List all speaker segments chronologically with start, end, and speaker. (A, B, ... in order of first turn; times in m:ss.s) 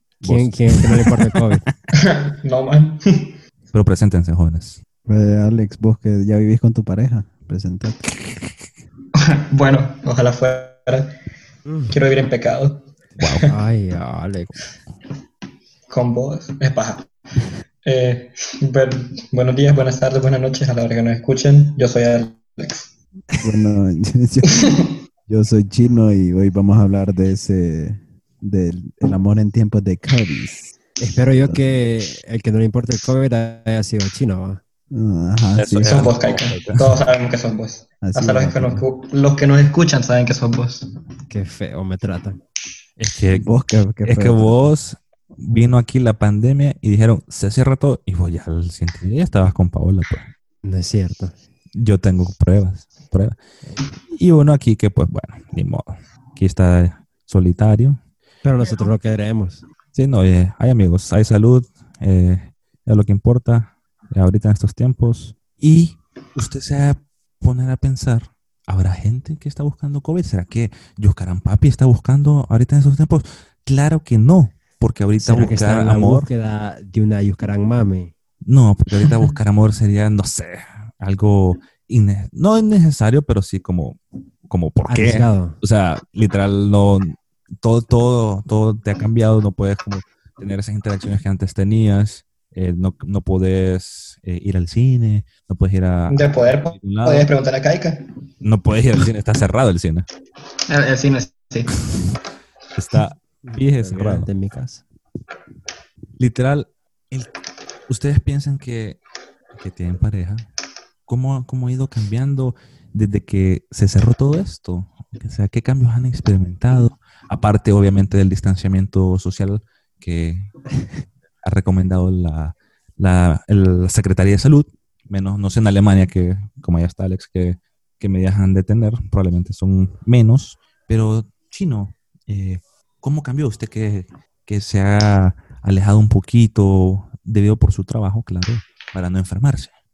0:00.2-0:01.7 A
0:00.2-0:01.7 B
0:01.9-0:03.4 C
0:03.7-0:04.8 A
0:05.1-0:08.1 D
0:09.2-0:11.1 C
0:11.6-0:12.0 B
0:11.9-0:13.5 C
0:13.2-0:13.5 A
0:13.5-0:14.6 B
0:15.9-0:17.1 C
0:17.8-0:22.9 C
0:23.4-0:30.8 D
0:24.5-0:25.0 C
0:31.0-0:34.6 B
0:31.5-0:31.8 D
0:34.9-0:36.1 D
0:35.6-0:36.9 A
0:35.8-0:40.9 C
0:38.0-0:38.8 D
0:41.3-0:42.4 B
0:43.0-0:43.5 A
0:43.3-0:44.7 D
0:44.0-0:50.3 A
0:50.6-0:51.3 B
0:51.8-0:53.4 A
0:54.1-0:58.0 A
0:58.4-0:59.6 B
1:00.0-1:16.3 A
1:15.2-1:18.1 B
1:18.4-1:37.3 A
1:24.9-1:25.6 B
1:36.1-1:38.1 C
1:38.4-1:40.1 A
1:40.7-1:41.8 C
1:42.8-1:44.3 A
1:43.4-1:44.8 B
1:46.2-1:47.3 A
1:47.9-1:49.0 A
1:49.5-1:50.5 A
1:51.1-2:00.5 A
2:01.4-2:19.7 A